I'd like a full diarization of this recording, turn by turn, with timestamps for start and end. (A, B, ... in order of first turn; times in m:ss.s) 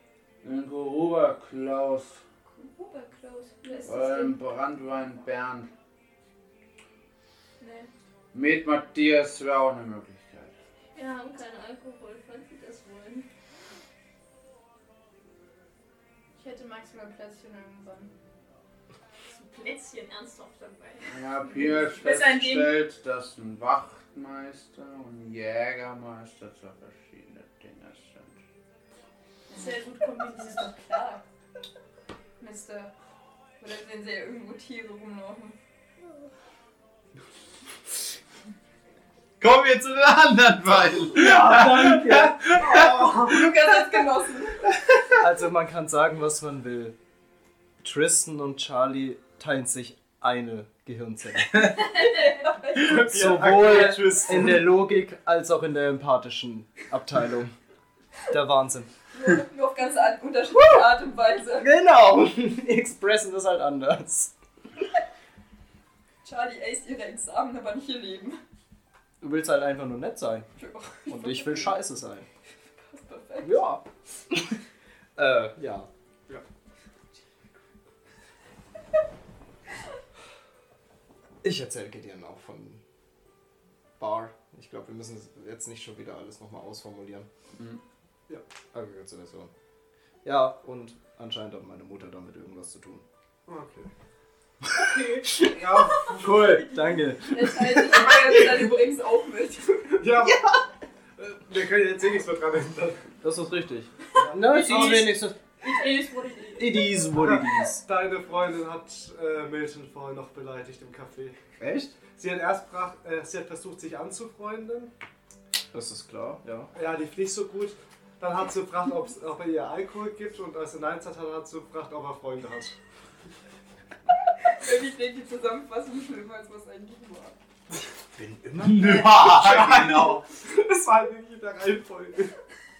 0:00.4-0:02.2 A
0:02.5-0:04.3 B
0:03.6-0:04.3 C
0:03.9-0:05.7 A
0:07.6-0:07.9 B
0:08.3-0:10.5 A
0:11.0-0:13.3 C
0:16.4-0:18.1 B
0:19.2-0:22.7 C
0:21.1-0:28.4 A
0:29.5-0:31.2 B
0:29.5-0:30.8 C
0:32.4-0:32.9 B
0:33.6-0:35.6 B
0:39.4-0:43.5 A
0:41.1-0:42.4 D
0:42.6-0:43.4 E
0:42.6-0:44.8 B
0:45.2-0:47.0 D
0:47.8-0:51.8 D
0:51.8-0:52.9 B
0:52.8-0:54.6 E
0:52.8-0:57.6 D
0:58.2-0:58.9 D
0:59.1-1:01.7 B
1:01.6-1:04.3 D
1:06.2-1:08.4 B
1:09.2-1:10.5 D
1:10.6-1:11.7 B
1:11.1-1:12.3 D
1:12.8-1:13.6 B
1:13.4-1:14.6 D
1:15.2-1:15.9 D
1:21.4-1:22.8 D
1:24.0-1:27.3 D
1:28.7-1:29.5 D
1:30.2-1:33.0 D
1:33.5-1:33.9 E
1:34.6-1:38.1 D
1:35.3-1:36.6 E
1:37.2-1:40.1 B
1:40.0-1:40.7 E
1:41.2-1:43.1 E
1:43.2-1:45.4 D
1:44.5-1:47.3 C
1:46.6-1:47.8 D
1:47.2-1:51.4 E
1:51.6-1:52.0 D
1:52.1-1:54.9 E
1:55.7-1:56.7 D
1:56.7-2:02.8 E
2:04.5-2:07.4 B
2:08.1-2:09.7 D
2:08.6-2:10.2 A
2:09.5-2:12.4 E